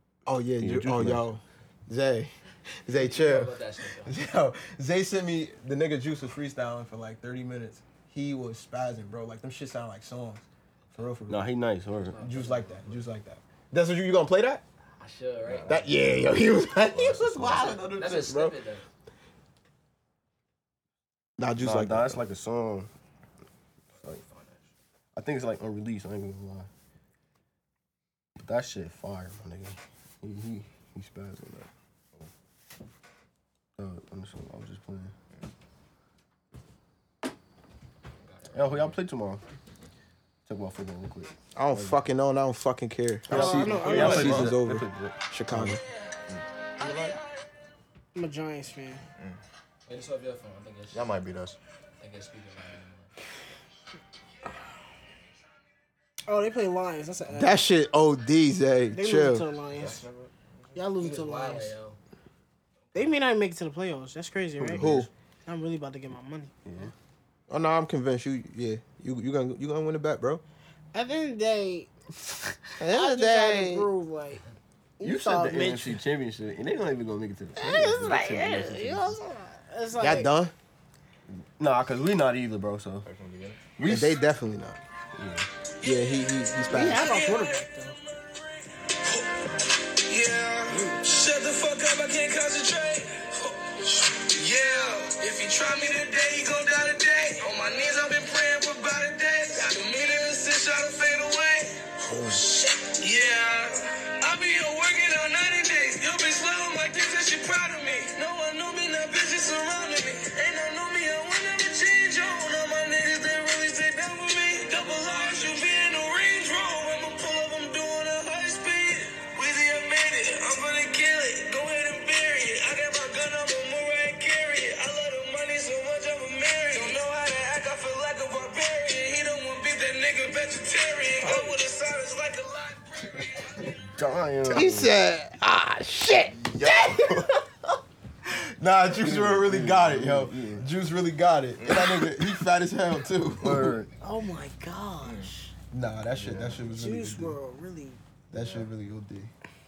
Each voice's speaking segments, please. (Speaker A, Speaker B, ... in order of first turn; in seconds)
Speaker A: 0.2-2.3, 2.8-10.4, 10.9-11.5, 12.2-14.6, 15.7-18.6, 21.4-22.2, 41.5-45.8, 57.3-59.5, 64.7-65.1, 67.5-70.4, 72.8-73.9, 80.0-80.5, 83.8-84.8, 85.8-87.1, 134.5-137.4, 138.2-143.8, 145.7-147.4, 148.3-149.3
Speaker B: 0.6-1.2, 11.3-12.2, 17.1-17.8, 21.6-22.9, 25.1-26.7, 28.4-31.7, 33.8-35.1, 38.5-39.4, 40.5-42.0, 43.3-45.8, 64.6-64.9, 66.7-66.9, 75.0-79.2, 81.3-83.1, 83.8-84.2, 85.2-85.5, 133.9-134.9, 139.0-140.6, 143.4-143.9
Speaker C: 3.0-4.2, 12.0-13.1, 15.0-15.8, 17.6-18.9, 24.0-24.6, 38.2-39.0, 49.9-51.1, 52.0-53.1, 61.0-62.0
Speaker D: 15.4-15.7, 17.3-17.9, 43.3-44.6, 46.3-47.1, 50.9-51.6, 59.7-60.8, 83.0-83.6, 136.3-137.3, 141.6-142.1, 145.0-145.3, 146.2-146.6, 148.3-148.7
Speaker E: 43.3-44.4, 48.1-49.0, 56.3-57.6, 58.9-60.0, 60.7-61.8, 62.9-66.5, 70.9-74.4, 75.0-76.0, 77.6-80.3, 86.7-88.0, 144.0-145.5, 146.7-148.0
Speaker F: 85.8-89.3, 90.0-133.7